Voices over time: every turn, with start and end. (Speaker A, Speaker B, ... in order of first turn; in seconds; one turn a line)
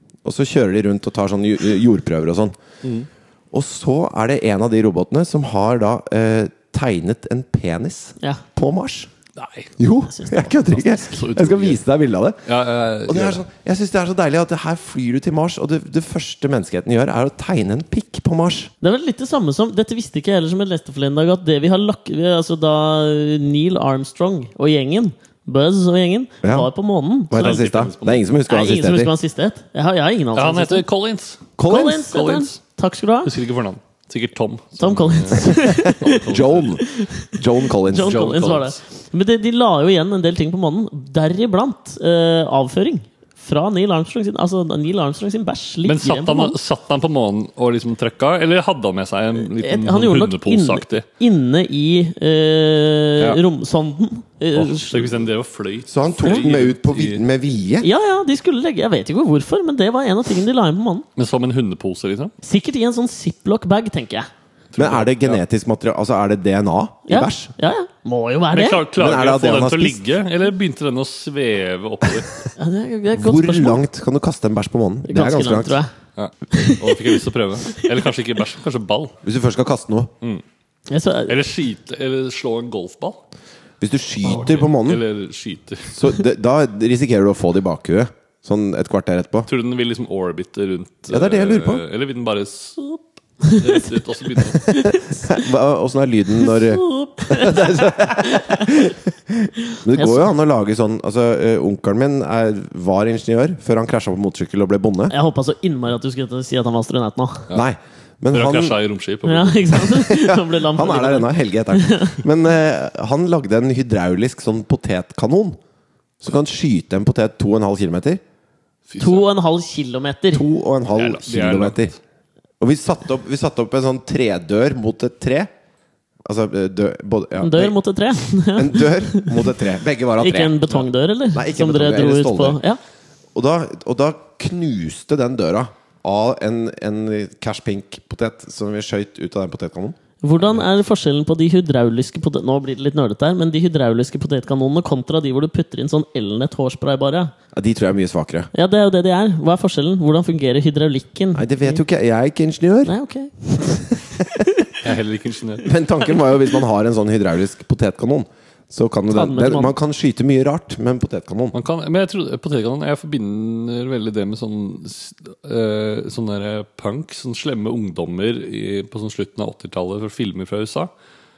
Speaker A: 0.2-2.5
Speaker B: 2.8-3.1
Speaker A: 3.5-9.1
Speaker B: 9.4-9.7
Speaker A: 9.8-12.5
Speaker C: 10.1-11.2
Speaker B: 11.1-11.8
Speaker B: 12.4-13.4
Speaker A: 13.0-18.7
Speaker C: 18.8-27.6
Speaker A: 26.4-26.7
Speaker A: 27.3-29.1
Speaker B: 27.3-28.3
Speaker C: 28.5-30.8
Speaker B: 30.3-32.6
Speaker A: 31.6-32.0
Speaker C: 31.6-33.3
Speaker B: 33.2-36.8
Speaker C: 34.8-36.2
Speaker A: 35.8-38.2
Speaker C: 36.9-37.3
Speaker C: 37.8-46.5
Speaker B: 37.9-38.8
Speaker B: 45.8-51.0
Speaker C: 49.4-55.2
Speaker B: 54.5-57.2
Speaker A: 55.9-57.9
Speaker C: 57.8-61.1
Speaker B: 61.1-62.3
Speaker C: 62.4-64.3
Speaker B: 64.7-65.4
Speaker A: 64.8-67.5
Speaker C: 67.1-68.8
Speaker B: 68.5-72.4
Speaker A: 69.0-70.0
Speaker C: 72.6-73.8
Speaker A: 73.1-75.8
Speaker C: 75.0-75.9
Speaker B: 76.2-79.2
Speaker C: 76.5-77.2
Speaker A: 79.2-80.1
Speaker C: 80.9-81.4
Speaker B: 81.3-83.2
Speaker A: 83.8-85.0
Speaker B: 84.2-86.1
Speaker A: 85.9-89.5
Speaker B: 89.5-94.8
Speaker A: 91.1-91.8
Speaker C: 94.6-95.0
Speaker A: 94.8-105.1
Speaker C: 96.5-98.8
Speaker C: 99.7-100.3
Speaker C: 105.1-107.5
Speaker A: 107.5-108.8
Speaker B: 108.3-109.8
Speaker C: 109.2-112.2
Speaker A: 109.8-115.6
Speaker A: 116.2-118.2
Speaker B: 118.9-119.2
Speaker C: 119.0-120.5
Speaker A: 120.3-121.9
Speaker B: 120.9-122.0
Speaker A: 122.6-125.5
Speaker A: 126.2-127.8
Speaker C: 127.4-129.4
Speaker A: 128.5-130.6
Speaker C: 130.2-132.8
Speaker A: 131.3-132.6
Speaker A: 133.3-139.9
Speaker C: 140.2-147.3
Speaker A: 147.5-148.5
Speaker C: 148.5-151.8
Speaker A: 151.3-152.9
Speaker C: 152.8-154.7
Speaker B: 154.8-155.7
Speaker A: 155.6-161.6
Speaker C: 159.1-159.7
Speaker B: 161.5-170.9